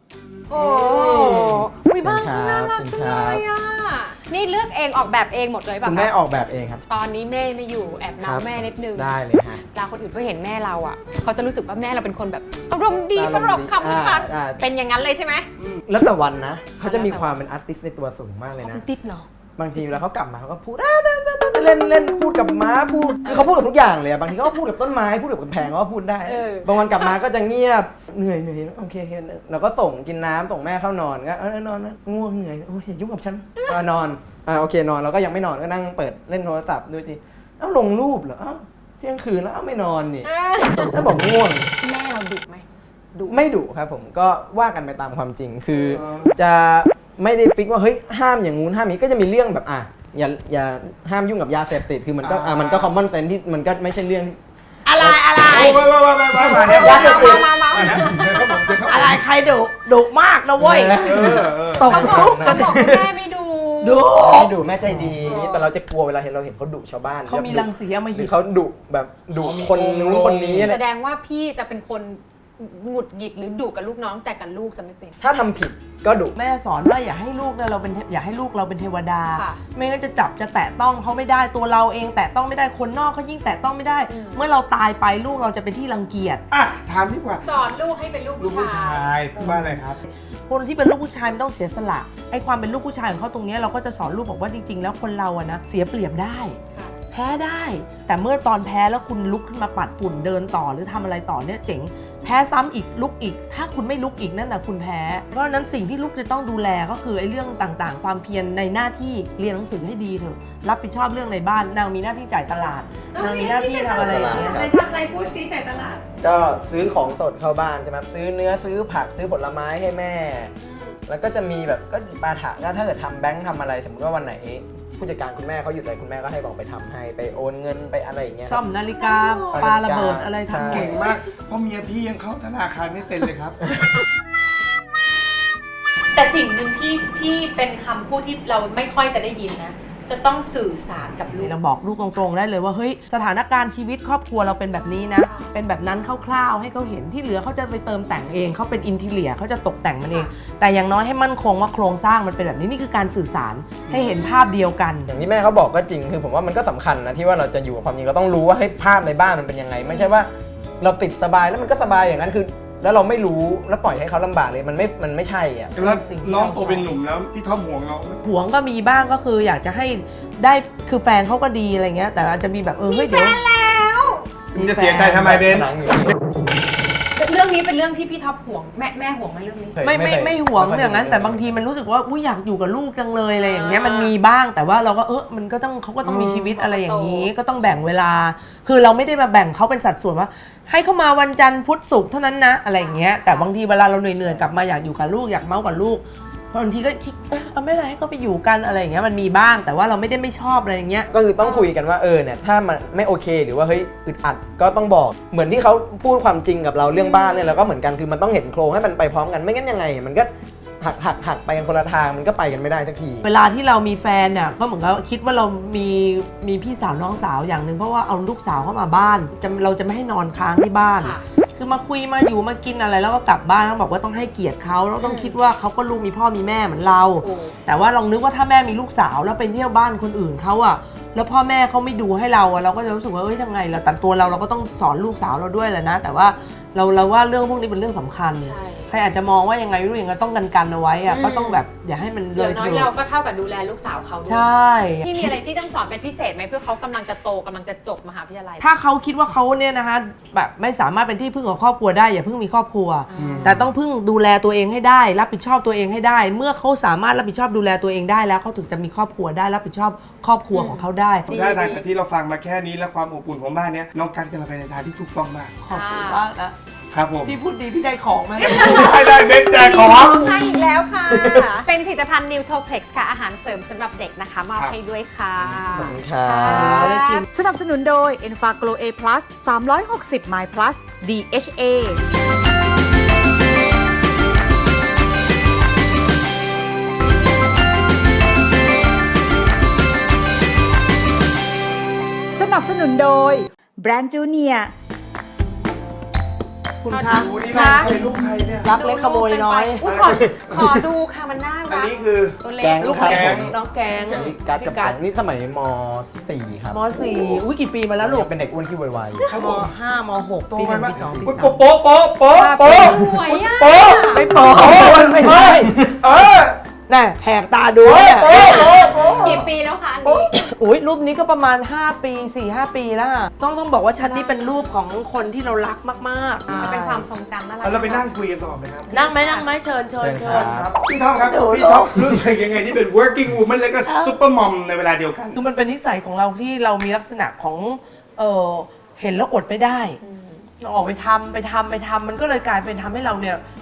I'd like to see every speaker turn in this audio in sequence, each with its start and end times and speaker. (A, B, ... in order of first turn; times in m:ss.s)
0:00.5-0:06.1 A
0:02.0-0:03.4 B
0:05.8-0:06.8 B
0:06.9-0:15.5 A
0:08.2-0:09.6 B
0:13.2-0:14.6 B
0:15.8-0:18.8 B
0:16.8-0:17.3 A
0:18.6-0:19.2 A
0:19.6-0:41.7 B
0:23.2-0:23.5 A
0:26.2-0:27.1 A
0:40.2-0:41.0 A
0:41.8-0:43.4 A
0:43.3-0:54.4 B
0:45.8-0:46.4 C
0:52.2-0:52.9 C
0:54.9-0:57.1 D
0:54.9-0:55.2 B
0:55.5-0:59.2 C
0:56.6-0:57.5 B
0:56.6-0:58.7 A
0:58.9-1:02.7 D
1:00.6-1:03.1 B
1:01.0-1:01.9 C
1:01.9-1:04.2 A
1:03.8-1:05.1 D
1:04.2-1:10.8 B
1:05.2-1:05.7 A
1:07.3-1:08.4 D
1:09.4-1:10.7 C
1:10.6-1:15.2 A
1:15.2-1:16.4 B
1:16.4-1:26.4 D
1:19.3-1:19.6 A
1:24.1-1:24.4 A
1:26.5-1:27.4 C
1:27.4-1:29.5 A
1:28.4-1:30.0 C
1:29.4-1:29.8 D
1:30.5-1:36.6 D
1:37.1-1:54.6 D
1:53.1-1:56.0 A
1:54.0-1:54.7 B
1:56.2-2:00.5 B
2:00.6-2:01.0 A
2:01.1-2:08.6 B
2:08.5-2:11.0 D
2:09.0-2:09.7 A
2:09.5-2:11.0 B
2:10.7-2:13.6 C
2:16.1-2:21.6 A
2:21.4-2:35.1 D
2:25.2-2:25.5 A
2:33.8-2:34.6 A
2:35.1-2:45.8 B
2:45.8-2:47.0 D
2:45.8-2:48.2 C
2:48.2-2:53.4 D
2:52.9-2:54.3 A
2:54.6-2:55.3 D
2:54.6-2:56.1 C
2:55.2-2:56.2 B
2:57.2-2:59.8 A
2:59.8-3:01.6 B
2:59.8-3:21.1 D
3:03.4-3:04.1 A
3:06.5-3:07.3 A
3:12.8-3:13.5 A
3:21.1-3:30.3 B
3:21.4-3:21.7 A
3:26.9-3:27.7 A
3:30.8-3:33.3 B
3:33.2-4:02.9 D
3:45.0-3:45.4 A
3:47.0-3:47.6 A
3:58.4-3:58.9 A
4:01.1-4:01.6 A
4:02.4-4:04.5 A
4:04.3-4:05.4 D
4:05.0-4:08.7 A
4:08.6-4:21.3 D
4:13.1-4:13.6 A
4:13.2-4:13.7 C
4:20.5-4:21.8 A
4:21.3-4:25.6 C
4:25.6-4:26.6 D
4:25.7-4:26.2 A
4:26.9-4:27.4 C
4:27.2-4:29.0 D
4:28.4-4:30.5 C
4:28.4-4:37.2 A
4:31.1-4:31.6 B
4:35.7-4:37.0 B
4:36.5-4:37.2 D
4:37.3-4:42.0 E
4:52.3-4:54.7 E
4:56.8-4:57.9 D
4:56.9-4:57.9 A
4:57.0-4:58.7 C
4:58.6-4:59.8 D
4:58.7-5:03.4 A
4:59.8-5:00.6 C
5:00.0-5:00.8 B
5:01.7-5:02.4 C
5:02.6-5:03.6 B
5:02.8-5:05.0 D
5:02.9-5:03.5 C
5:04.1-5:06.8 B
5:06.7-5:08.3 D
5:08.0-5:09.3 B
5:09.3-5:09.7 C
5:09.3-5:11.6 D
5:10.5-5:16.6 C
5:10.8-5:11.3 B
5:12.3-5:13.0 D
5:12.4-5:14.2 A
5:13.9-5:15.7 D
5:16.9-5:18.4 D
5:17.8-5:19.5 C
5:18.4-5:20.3 A
5:18.5-5:19.3 B
5:20.3-5:27.0 D
5:24.0-5:24.6 A
5:26.5-5:28.1 A
5:27.6-5:28.9 C
5:28.9-5:29.5 A
5:28.9-5:30.6 D
5:30.0-5:30.7 B
5:30.3-5:35.4 C
5:31.2-5:32.2 D
5:33.9-5:34.2 D
5:35.4-5:40.0 D
5:40.0-5:40.5 A
5:40.6-5:43.4 D